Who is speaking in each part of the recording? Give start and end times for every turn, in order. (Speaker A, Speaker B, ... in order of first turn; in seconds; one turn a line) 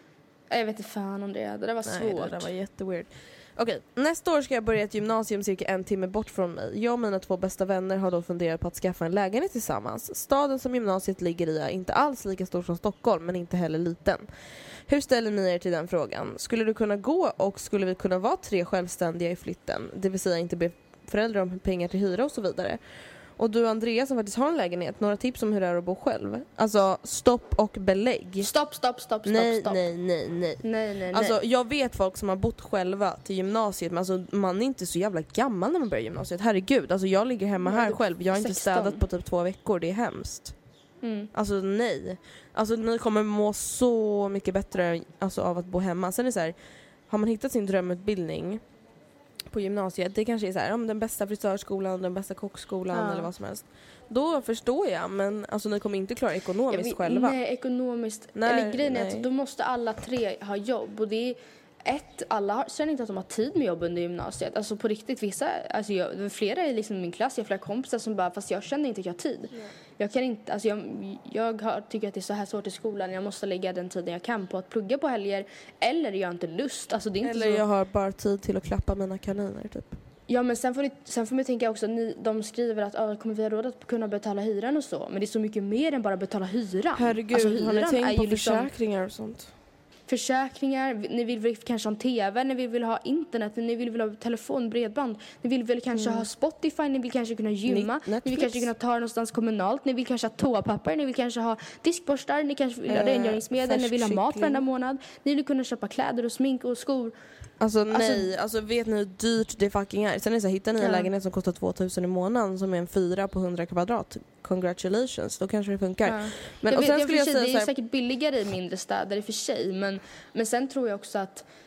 Speaker A: 0.5-2.5
Speaker B: 1.9-14.2
Speaker B: 14.8-22.8
Speaker B: 23.4-28.5
Speaker A: 28.4-29.9
Speaker B: 29.2-40.5
Speaker A: 30.6-31.4
Speaker A: 37.6-39.0
Speaker A: 41.0-41.3
Speaker B: 41.3-46.5
Speaker B: 47.1-48.6
Speaker B: 49.5-57.4
Speaker A: 52.9-53.3
Speaker A: 56.7-77.6
Speaker B: 58.3-59.3
Speaker B: 77.2-79.9
Speaker A: 80.3-88.7
Speaker B: 87.0-89.5
Speaker A: 90.1-107.1
Speaker B: 95.9-96.2
Speaker B: 97.7-98.7
Speaker B: 102.9-104.6
Speaker B: 107.6-117.7
Speaker A: 107.9-108.3
Speaker A: 110.8-111.1
Speaker A: 116.0-121.5